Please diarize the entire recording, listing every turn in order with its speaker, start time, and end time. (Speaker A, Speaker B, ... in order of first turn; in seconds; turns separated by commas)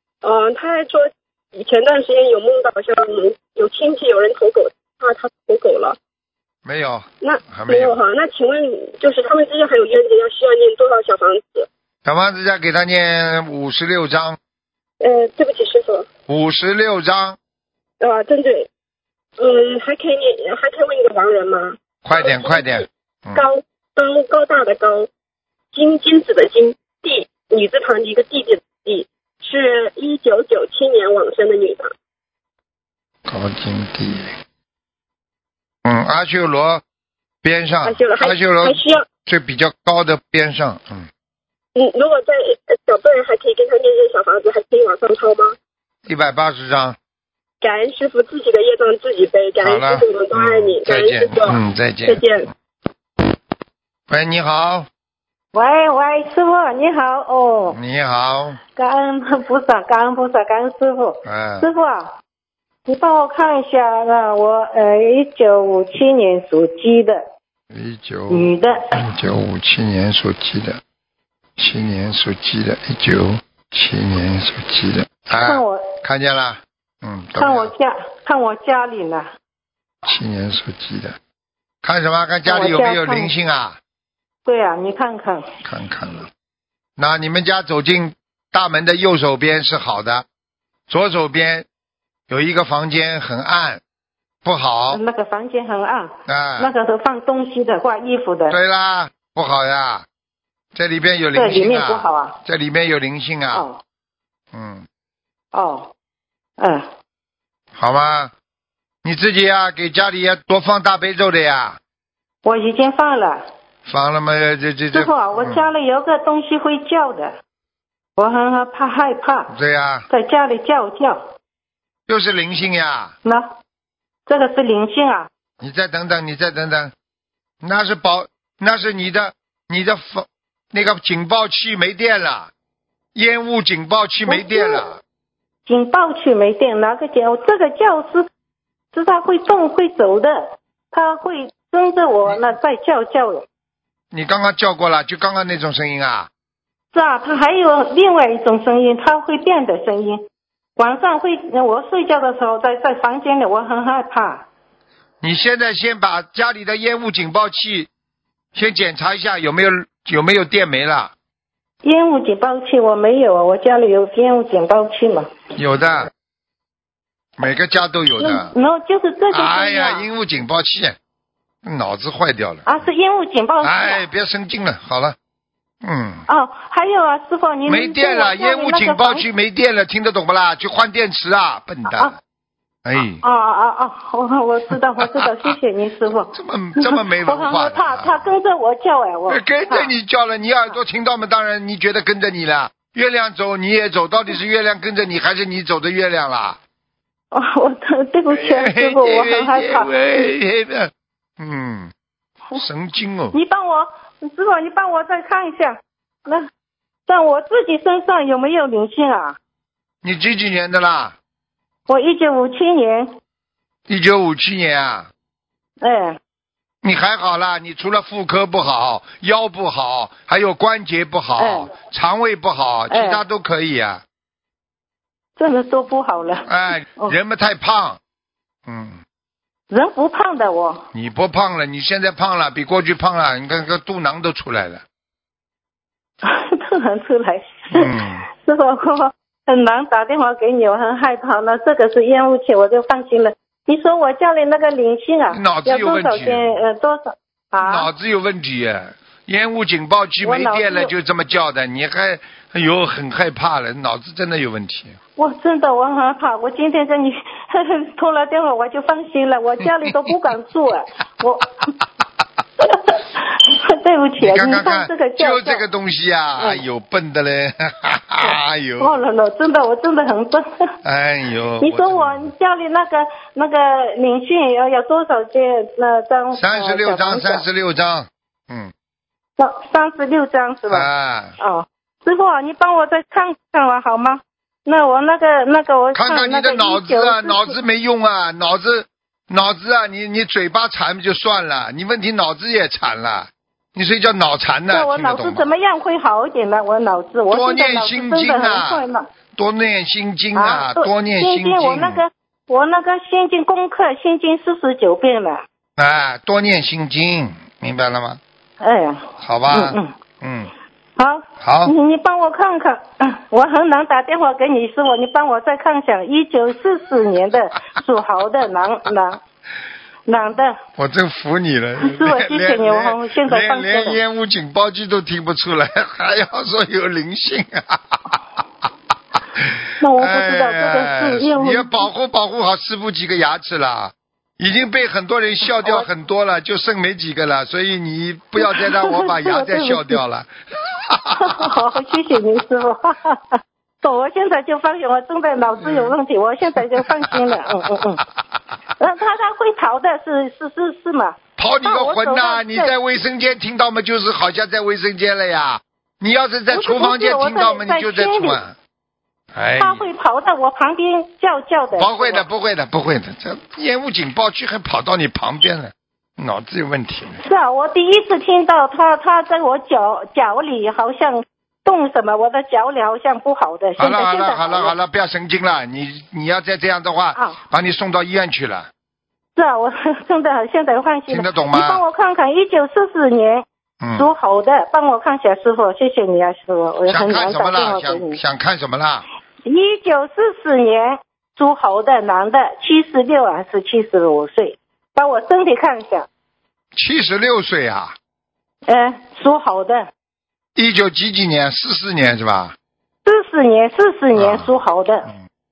Speaker A: 0.2-6.0, Speaker B: 6.7-8.0, Speaker A: 7.2-11.7, Speaker B: 12.1-14.4, Speaker A: 15.0-16.1, Speaker B: 16.3-17.4, Speaker A: 18.0-18.7, Speaker A: 19.4-22.8, Speaker B: 22.0-23.5, Speaker A: 23.4-25.1, Speaker A: 25.7-31.9, Speaker B: 33.3-34.3, Speaker B: 35.9-36.8, Speaker B: 37.4-41.1, Speaker A: 37.9-39.1, Speaker A: 41.8-45.5, Speaker B: 46.1-47.0, Speaker A: 47.6-52.5, Speaker B: 49.6-52.3, Speaker B: 54.1-54.9, Speaker C: 55.5-57.8, Speaker B: 57.7-58.6, Speaker C: 58.8-62.1, Speaker B: 61.2-61.7, Speaker C: 62.9-67.2, Speaker B: 67.7-70.8, Speaker C: 68.3-69.0, Speaker B: 71.6-77.7, Speaker C: 75.4-75.9, Speaker C: 77.4-79.3, Speaker B: 80.0-81.2, Speaker B: 81.8-83.8, Speaker C: 82.5-83.3, Speaker C: 84.5-85.5, Speaker B: 85.6-86.3, Speaker B: 87.0-90.2, Speaker B: 90.9-91.7, Speaker B: 92.3-93.8, Speaker B: 94.4-95.0, Speaker C: 94.9-98.6, Speaker B: 96.3-96.7, Speaker B: 98.5-100.1, Speaker B: 100.7-103.7, Speaker C: 101.3-102.4, Speaker C: 103.5-103.8, Speaker B: 104.5-104.9, Speaker C: 105.5-105.9, Speaker C: 106.6-106.9, Speaker B: 107.8-108.3, Speaker B: 109.0-111.8, Speaker C: 112.4-113.4, Speaker B: 113.9-115.7, Speaker C: 114.9-117.4, Speaker C: 118.2-119.5, Speaker B: 119.5-120.1, Speaker C: 120.1-121.2, Speaker B: 122.1-123.1, Speaker C: 123.2-123.5, Speaker C: 124.3-125.3, Speaker B: 125.6-126.9, Speaker B: 127.6-132.5, Speaker B: 133.2-135.0, Speaker C: 134.3-134.8, Speaker C: 135.7-138.3, Speaker C: 138.9-143.5, Speaker B: 144.1-146.3, Speaker C: 146.9-150.2, Speaker C: 150.8-154.4, Speaker B: 155.2-157.9, Speaker B: 158.5-161.1, Speaker C: 161.8-165.3, Speaker B: 165.6-166.1, Speaker B: 167.4-168.5, Speaker C: 168.2-170.1, Speaker B: 169.3-171.0, Speaker B: 171.6-172.8, Speaker C: 172.7-174.0, Speaker B: 173.6-175.2, Speaker B: 175.8-176.2, Speaker C: 176.3-179.2, Speaker B: 177.7-182.1, Speaker B: 182.8-183.2, Speaker C: 183.2-189.9, Speaker B: 184.7-185.6, Speaker B: 186.1-188.3, Speaker B: 189.3-196.6, Speaker C: 197.3-199.9, Speaker B: 198.3-201.9, Speaker B: 202.6-203.4, Speaker C: 203.3-206.5, Speaker C: 207.1-209.4, Speaker B: 210.0-211.2, Speaker C: 211.9-213.2, Speaker B: 213.9-215.1, Speaker C: 215.8-216.2, Speaker B: 216.8-224.0, Speaker C: 221.4-221.7, Speaker C: 222.9-223.2, Speaker C: 225.4-227.2, Speaker B: 226.5-228.0, Speaker B: 228.7-229.0, Speaker C: 229.7-230.8, Speaker B: 230.9-234.8, Speaker C: 236.2-247.9, Speaker B: 237.7-238.2, Speaker B: 245.3-246.6, Speaker B: 247.6-255.0, Speaker C: 250.2-250.9, Speaker C: 255.2-261.7, Speaker B: 259.6-260.1, Speaker C: 262.6-265.6, Speaker B: 264.2-269.0, Speaker C: 266.4-266.6, Speaker C: 268.2-270.5, Speaker B: 270.8-272.3, Speaker C: 271.6-277.4, Speaker B: 276.4-278.7, Speaker C: 279.4-280.9, Speaker B: 280.7-281.4, Speaker C: 281.4-287.6, Speaker B: 285.9-295.5, Speaker C: 294.7-299.1, Speaker B: 297.3-298.8, Speaker B: 299.4-302.0, Speaker C: 300.4-305.4, Speaker B: 305.8-308.2, Speaker C: 308.6-309.9, Speaker B: 309.2-310.5, Speaker C: 311.0-319.2, Speaker B: 311.4-311.7, Speaker C: 320.1-320.6, Speaker B: 320.8-328.2, Speaker C: 321.8-324.0, Speaker B: 329.3-341.6, Speaker C: 329.8-331.9, Speaker C: 335.6-335.9, Speaker C: 338.4-340.0, Speaker C: 341.1-348.0, Speaker B: 345.6-345.9, Speaker B: 346.8-347.7, Speaker C: 348.8-352.7, Speaker B: 351.4-358.6, Speaker C: 356.5-358.4, Speaker B: 359.4-359.9, Speaker C: 359.6-362.2, Speaker B: 361.7-367.2, Speaker C: 367.2-374.7, Speaker B: 373.8-378.7, Speaker C: 379.4-383.4, Speaker B: 381.1-381.8, Speaker B: 383.8-384.1, Speaker C: 384.0-388.2, Speaker B: 386.9-389.1, Speaker C: 389.5-396.1, Speaker B: 396.8-398.0, Speaker C: 398.7-399.9, Speaker B: 400.6-402.6, Speaker C: 403.1-405.1, Speaker B: 404.2-404.5